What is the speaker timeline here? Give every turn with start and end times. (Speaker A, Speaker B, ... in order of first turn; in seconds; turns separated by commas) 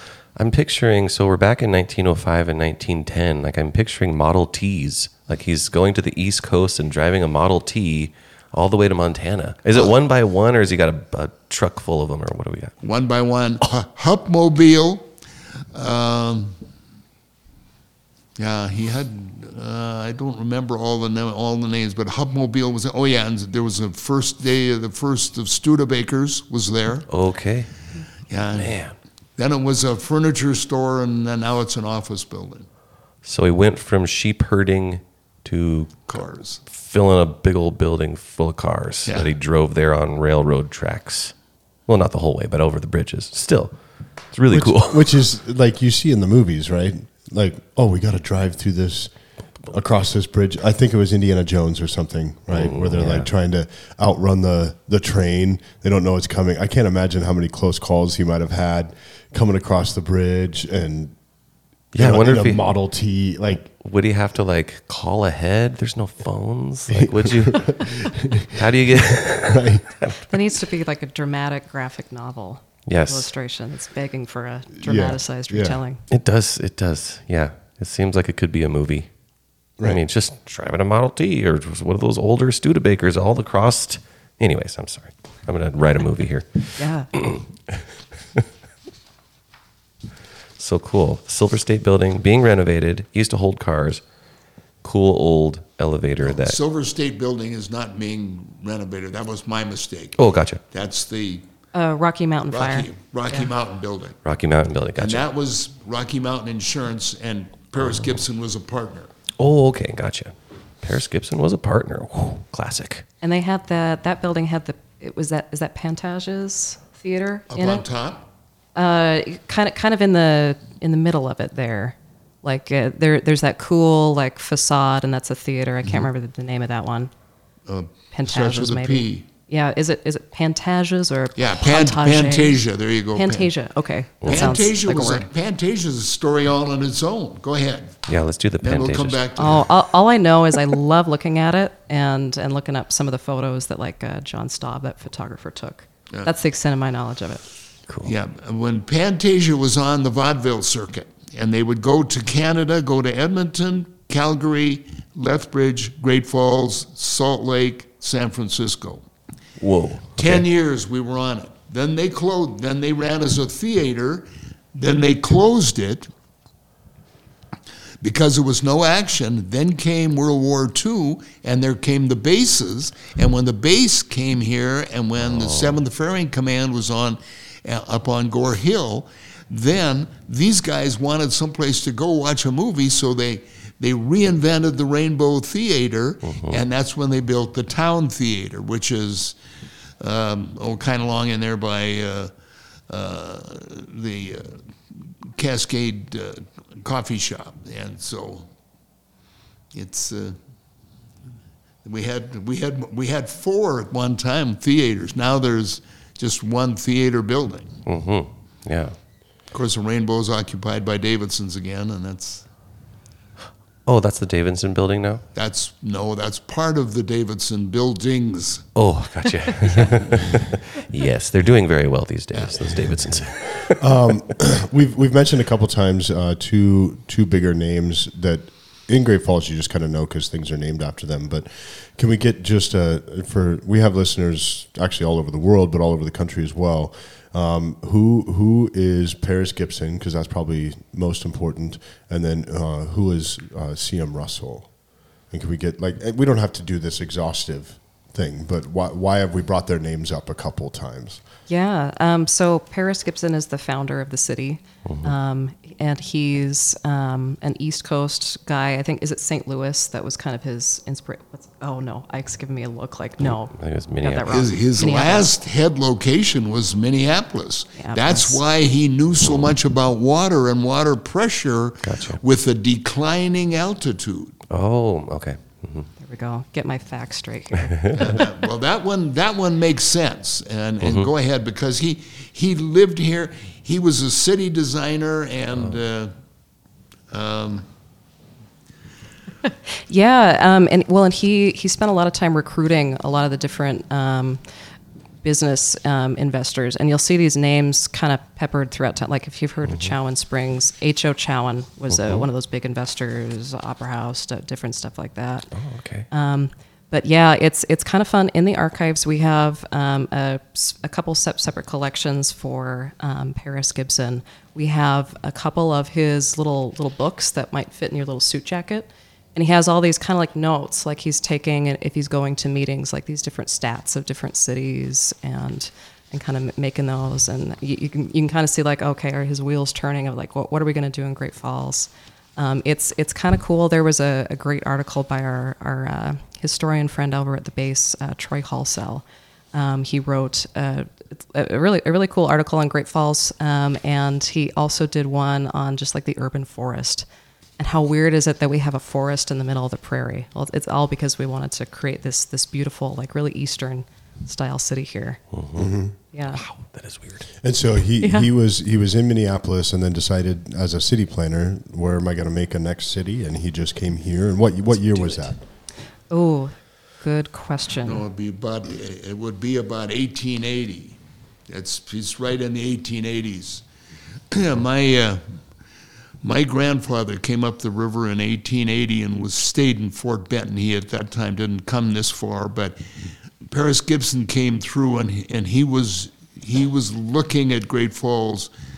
Speaker A: 0.3-12.7, Speaker B: 12.8-15.1, Speaker B: 15.7-16.6, Speaker B: 18.4-27.1, Speaker A: 27.1-27.7, Speaker B: 28.3-28.8, Speaker A: 28.6-28.9, Speaker B: 29.4-32.7, Speaker A: 33.2-36.0, Speaker B: 36.1-36.6, Speaker A: 36.7-41.3, Speaker A: 41.9-43.7, Speaker A: 44.3-45.1, Speaker C: 44.5-49.1, Speaker C: 49.6-61.1, Speaker A: 52.5-53.3, Speaker A: 61.9-62.7, Speaker C: 62.0-63.7, Speaker A: 63.8-68.0, Speaker C: 66.9-69.9, Speaker A: 68.5-70.2, Speaker D: 70.3-76.0, Speaker A: 72.8-73.3, Speaker C: 74.8-75.8, Speaker A: 76.1-79.1, Speaker A: 79.8-87.8, Speaker D: 86.8-87.1, Speaker A: 90.6-94.0, Speaker A: 94.8-96.6, Speaker B: 96.2-101.4, Speaker A: 100.2-100.6, Speaker D: 101.7-103.5, Speaker B: 102.5-104.2, Speaker A: 104.2-105.2, Speaker B: 105.0-109.1, Speaker A: 109.4-113.0, Speaker D: 113.2-117.8, Speaker B: 117.5-118.3, Speaker D: 118.7-127.1, Speaker B: 127.7-129.2, Speaker D: 128.1-132.6, Speaker B: 131.3-133.5, Speaker D: 133.1-135.2, Speaker A: 134.2-134.6, Speaker B: 134.2-138.0, Speaker A: 138.1-139.2, Speaker B: 138.6-139.6, Speaker D: 139.4-147.4, Speaker A: 147.9-148.1, Speaker B: 148.0-159.0, Speaker A: 159.6-160.4, Speaker B: 160.2-166.1, Speaker B: 168.0-189.3, Speaker A: 175.2-175.8, Speaker A: 186.2-186.6, Speaker B: 190.0-192.3, Speaker B: 192.9-194.6, Speaker B: 195.3-198.5, Speaker B: 199.7-200.4, Speaker B: 201.8-207.8, Speaker A: 207.8-208.9, Speaker B: 209.5-212.4, Speaker A: 213.8-215.2, Speaker B: 215.3-218.7, Speaker A: 218.7-223.9, Speaker D: 219.5-219.8, Speaker C: 223.8-251.2, Speaker D: 251.5-265.3, Speaker A: 254.8-255.1, Speaker A: 263.2-264.6, Speaker B: 264.3-274.4, Speaker D: 267.8-268.4, Speaker A: 271.8-272.2, Speaker A: 274.5-275.9, Speaker D: 276.0-277.9, Speaker B: 277.9-286.1, Speaker A: 280.8-281.1, Speaker B: 287.1-287.6, Speaker D: 289.4-294.4, Speaker D: 295.2-305.5, Speaker A: 301.9-302.2, Speaker A: 305.5-306.1, Speaker D: 306.1-347.1, Speaker D: 347.6-355.2, Speaker A: 355.3-355.7, Speaker C: 355.6-355.9, Speaker D: 356.1-356.4, Speaker A: 356.3-357.3, Speaker C: 357.4-365.4, Speaker D: 358.0-358.3, Speaker A: 364.7-365.3, Speaker D: 366.1-368.0, Speaker B: 367.8-373.6, Speaker B: 374.3-375.2, Speaker B: 376.2-382.8, Speaker B: 383.4-388.5